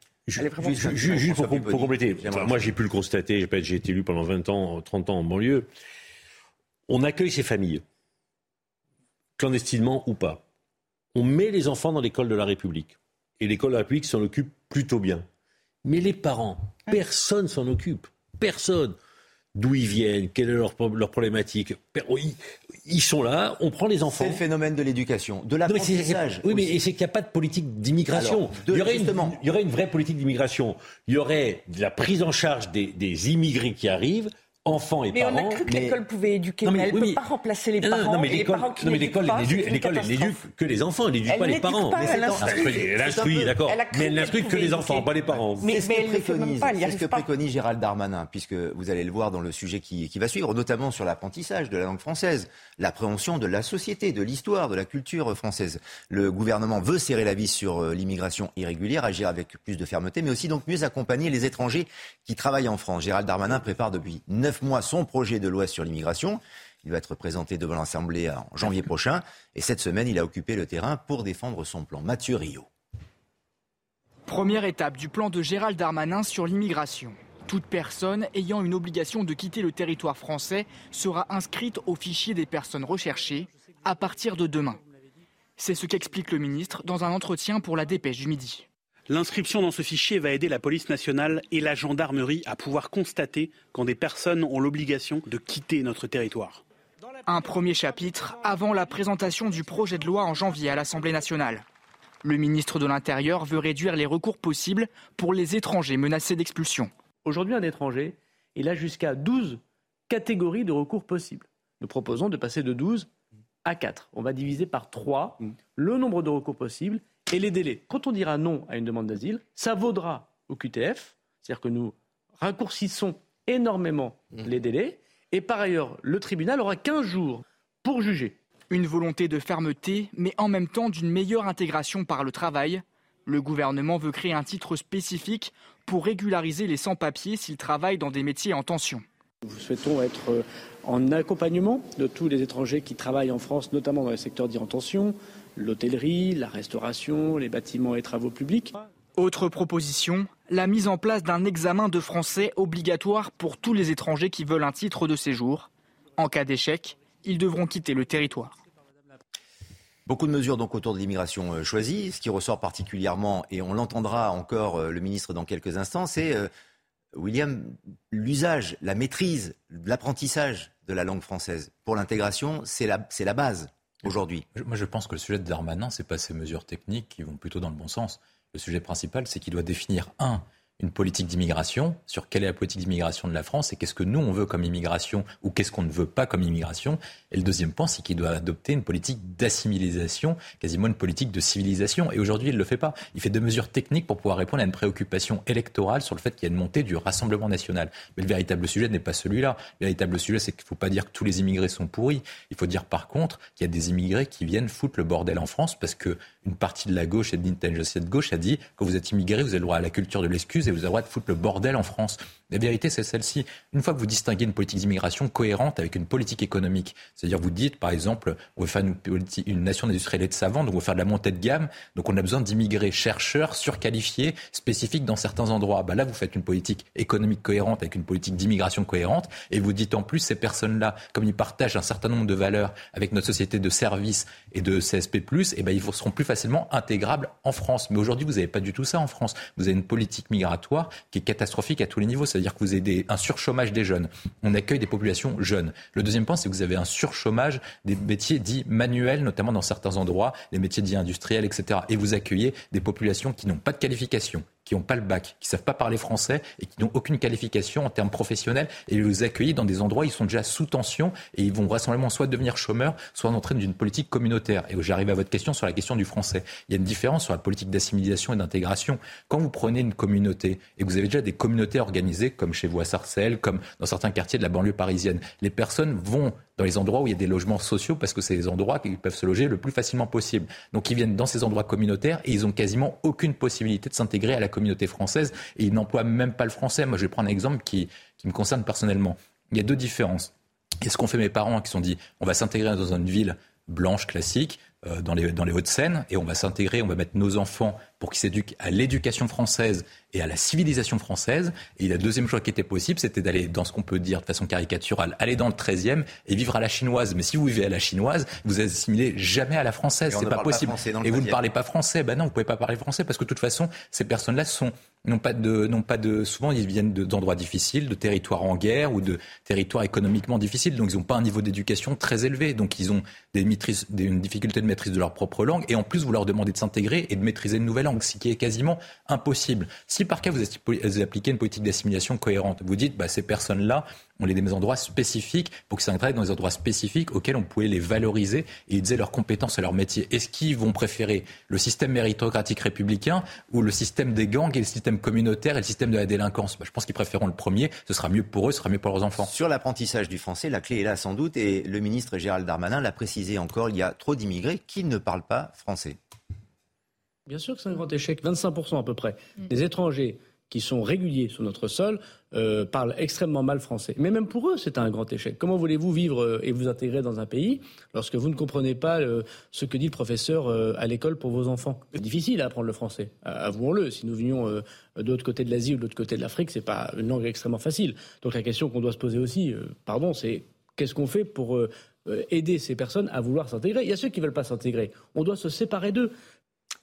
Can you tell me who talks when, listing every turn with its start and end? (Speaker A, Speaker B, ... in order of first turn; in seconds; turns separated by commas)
Speaker A: 0.3-5.7, Speaker B: 0.4-1.2, Speaker C: 0.6-2.6, Speaker A: 6.9-7.8, Speaker A: 9.4-10.4, Speaker A: 11.1-15.2, Speaker A: 15.8-18.9, Speaker A: 19.5-24.4, Speaker C: 24.1-26.8, Speaker A: 25.7-35.6, Speaker C: 28.1-29.4, Speaker B: 35.1-40.5, Speaker C: 35.6-36.0, Speaker A: 36.6-37.2, Speaker A: 37.8-45.7, Speaker B: 41.3-47.2, Speaker C: 41.9-43.5, Speaker C: 45.6-72.7, Speaker D: 74.3-84.8, Speaker D: 85.6-88.7, Speaker E: 89.1-96.6, Speaker D: 97.2-101.6, Speaker D: 102.2-106.9, Speaker F: 107.2-113.1, Speaker F: 113.6-128.4, Speaker D: 128.7-139.0, Speaker F: 139.4-148.8, Speaker D: 149.2-158.6, Speaker C: 160.1-166.5, Speaker C: 167.1-174.4, Speaker G: 174.6-290.3, Speaker G: 290.8-349.3, Speaker C: 310.1-311.4, Speaker C: 349.2-356.0, Speaker F: 357.3-386.1